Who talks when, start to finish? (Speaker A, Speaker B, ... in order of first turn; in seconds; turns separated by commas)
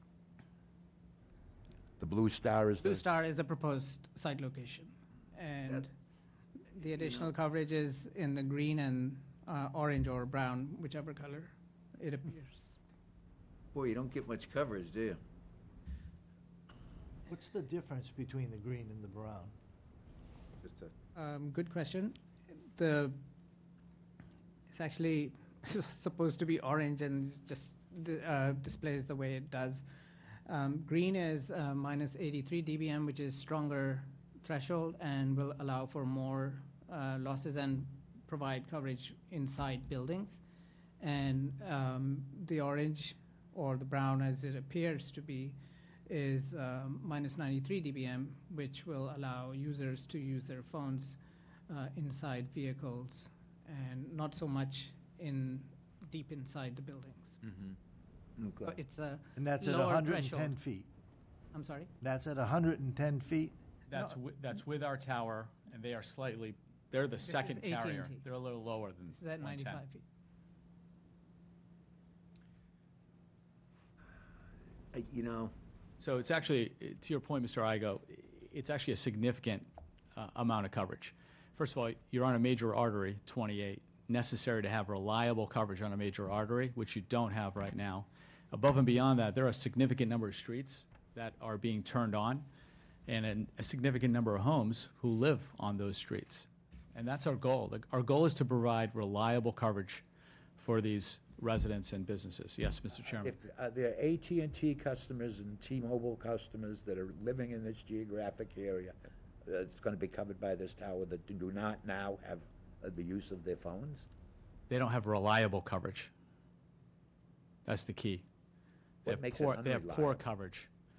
Speaker A: 2.0-3.1, Speaker B: 2.8-5.9, Speaker B: 6.7-12.8, Speaker C: 13.7-15.2, Speaker D: 17.3-19.5, Speaker C: 20.6-20.9, Speaker B: 21.1-23.2, Speaker B: 24.7-29.8, Speaker B: 30.4-40.4, Speaker B: 41.0-57.5, Speaker C: 58.4-58.7, Speaker B: 58.6-60.6, Speaker D: 59.4-60.9, Speaker B: 61.5-61.9, Speaker D: 62.0-63.5, Speaker E: 63.9-69.8, Speaker B: 67.2-68.2, Speaker B: 69.1-70.0, Speaker C: 74.9-75.5, Speaker E: 76.0-92.5, Speaker E: 93.1-100.0, Speaker E: 100.6-103.3, Speaker A: 103.1-114.0, Speaker E: 114.7-116.1, Speaker E: 117.7-118.2, Speaker E: 119.0-120.7, Speaker A: 119.0-120.2